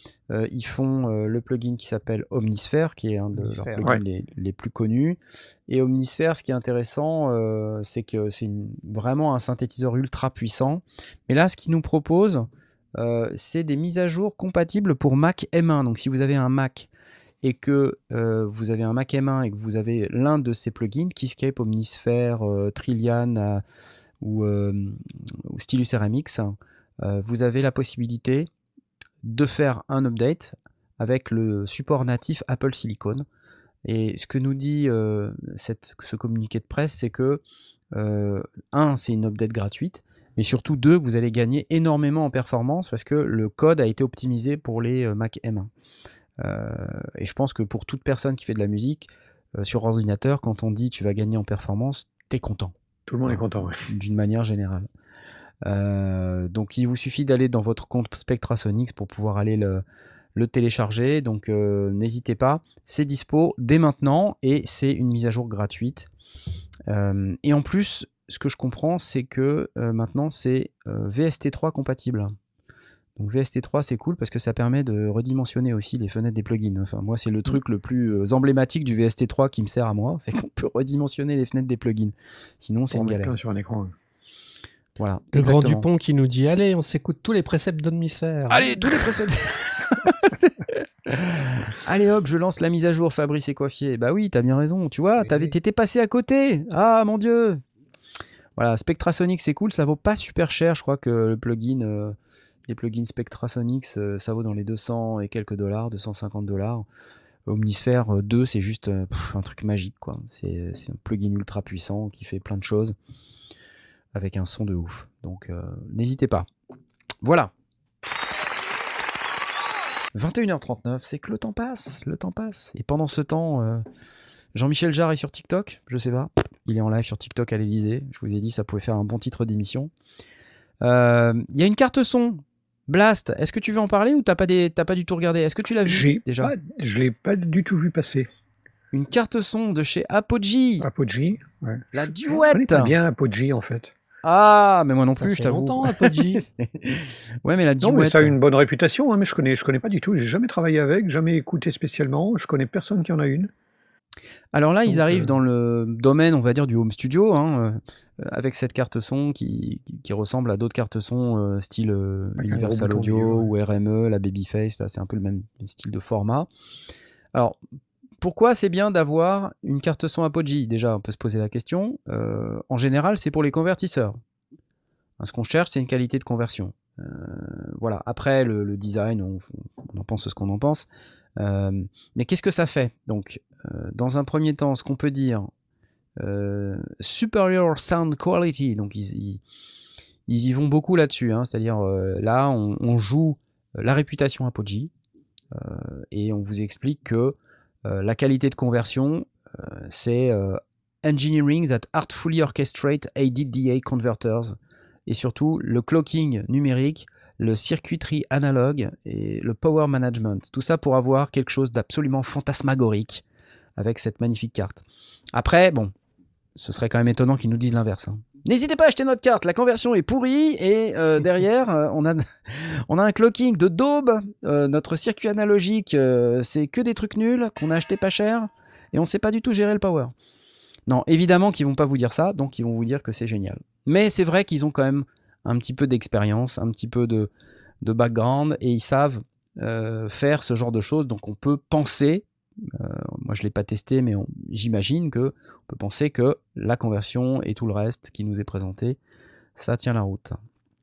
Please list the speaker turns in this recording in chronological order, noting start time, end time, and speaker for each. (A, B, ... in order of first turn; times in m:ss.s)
0:00.3-0:12.5 A
0:03.4-0:03.9 B
0:13.0-0:16.9 A
0:17.4-0:23.6 A
0:24.2-0:28.5 A
0:29.2-0:33.2 A
0:33.8-0:37.4 A
0:37.9-0:45.7 A
0:46.4-0:52.7 A
0:53.1-0:53.8 C
0:53.2-0:54.9 A
0:55.6-0:59.8 A
1:00.3-1:06.1 A
1:06.9-1:12.3 A
1:13.2-1:23.3 A
1:22.9-1:23.9 C
1:25.0-1:25.8 A
1:25.3-1:29.0 B
1:28.5-1:37.6 A
1:35.2-1:35.5 B
1:38.6-1:42.2 A
1:42.7-1:46.8 A
1:47.5-1:52.9 A
1:54.1-1:56.5 A
1:57.2-1:57.5 A
2:00.1-2:03.8 A
2:04.5-2:09.9 A
2:10.8-2:16.5 A
2:15.8-2:18.3 C
2:18.9-2:20.9 A
2:20.8-2:23.9 C
2:21.9-2:23.0 A
2:24.2-2:28.3 A
2:25.2-2:26.4 B
2:27.8-2:33.5 C
2:34.5-2:46.5 A
2:34.9-2:35.3 C
2:42.4-2:43.5 C
2:48.2-2:54.2 A
2:55.2-3:05.5 A
3:06.2-3:09.4 A
3:10.3-3:14.9 A
3:15.5-3:33.2 A
3:33.8-3:35.9 A
3:36.6-3:50.1 A
3:50.9-3:57.3 A
3:57.8-4:09.0 A
4:09.6-4:10.4 A